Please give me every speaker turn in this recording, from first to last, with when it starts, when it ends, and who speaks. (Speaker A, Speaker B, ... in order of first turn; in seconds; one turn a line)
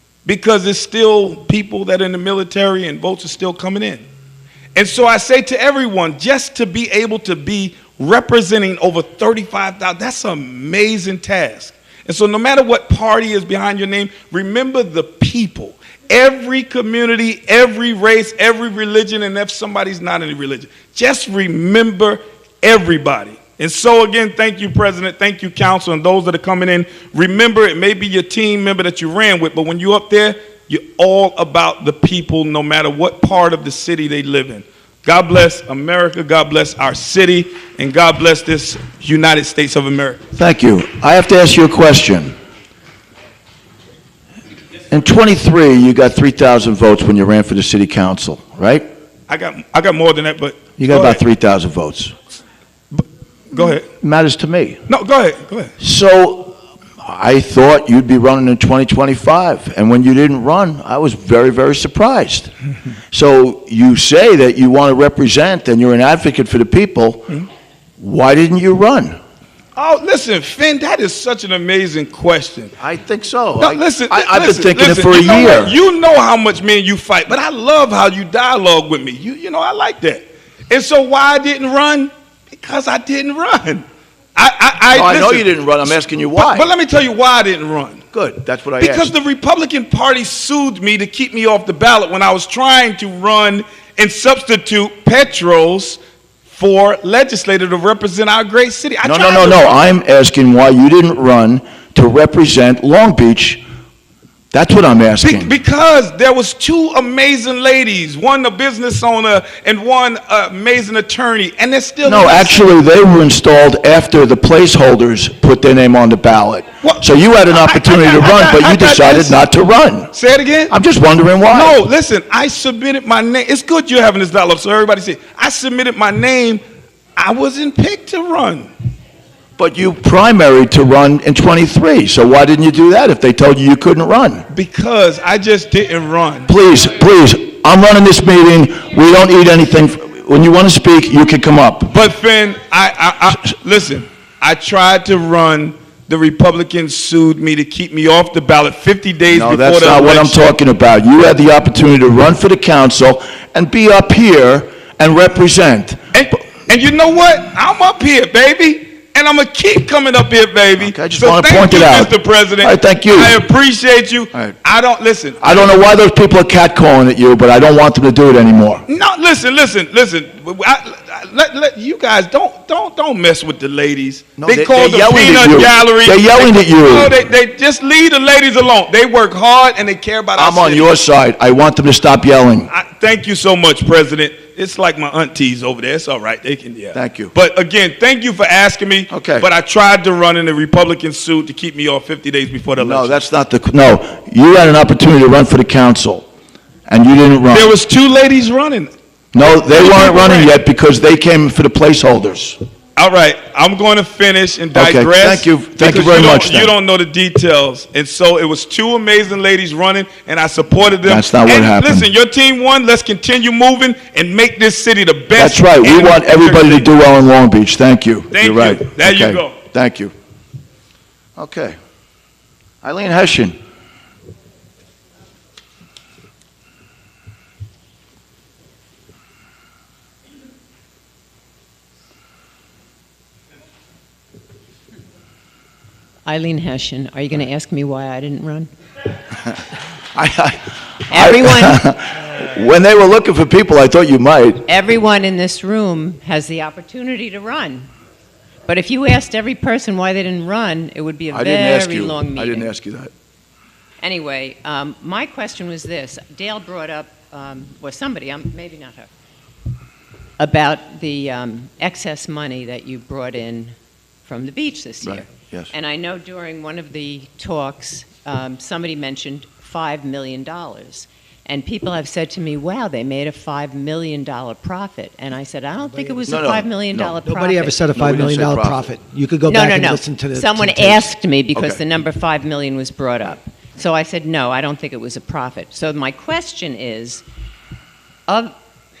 Speaker A: 0.2-4.0
Speaker A: 4.7-40.2
Speaker B: 40.3-42.4
Speaker B: 44.9-48.9
Speaker A: 49.3-51.2
Speaker B: 50.8-52.1
Speaker A: 52.9-53.8
Speaker B: 53.5-54.8
Speaker A: 54.9-55.7
Speaker B: 55.8-62.5
Speaker B: 63.1-67.4
Speaker B: 68.0-69.2
Speaker A: 69.8-72.7
Speaker B: 72.8-75.8
Speaker A: 73.6-83.8
Speaker A: 84.3-88.0
Speaker B: 84.9-86.7
Speaker B: 88.1-89.1
Speaker A: 88.8-99.8
Speaker B: 99.0-103.6
Speaker B: 104.5-105.5
Speaker A: 105.2-112.6
Speaker B: 112.0-120.1
Speaker A: 116.8-119.3
Speaker A: 120.1-120.7
Speaker B: 120.7-121.8
Speaker A: 121.5-126.6
Speaker A: 127.2-128.7
Speaker B: 129.6-134.4
Speaker A: 134.5-136.5
Speaker B: 136.5-141.9
Speaker A: 141.9-150.5
Speaker B: 149.3-156.0
Speaker A: 156.1-165.8
Speaker B: 160.8-163.4
Speaker B: 165.4-168.8
Speaker A: 168.9-181.0
Speaker B: 174.4-177.1
Speaker B: 180.3-182.7
Speaker A: 182.7-193.2
Speaker B: 186.9-187.3
Speaker B: 189.1-189.4
Speaker B: 192.8-196.3
Speaker B: 196.9-197.7
Speaker A: 197.5-200.5
Speaker B: 199.3-202.6
Speaker A: 202.9-216.9
Speaker B: 204.7-206.7
Speaker B: 211.0-212.1
Speaker B: 215.3-220.1
Speaker A: 218.3-219.6
Speaker B: 221.3-221.8
Speaker B: 222.8-223.6
Speaker C: 236.2-238.7
Speaker B: 240.1-244.7
Speaker C: 241.1-241.8
Speaker C: 244.7-247.9
Speaker C: 248.7-252.7
Speaker B: 251.3-253.1
Speaker C: 254.0-259.1
Speaker C: 260.4-278.2
Speaker B: 265.0-265.7
Speaker D: 275.8-276.4
Speaker B: 276.3-277.2
Speaker D: 277.2-281.1
Speaker B: 277.9-278.9
Speaker C: 279.4-287.2
Speaker B: 281.5-281.8
Speaker C: 288.3-288.5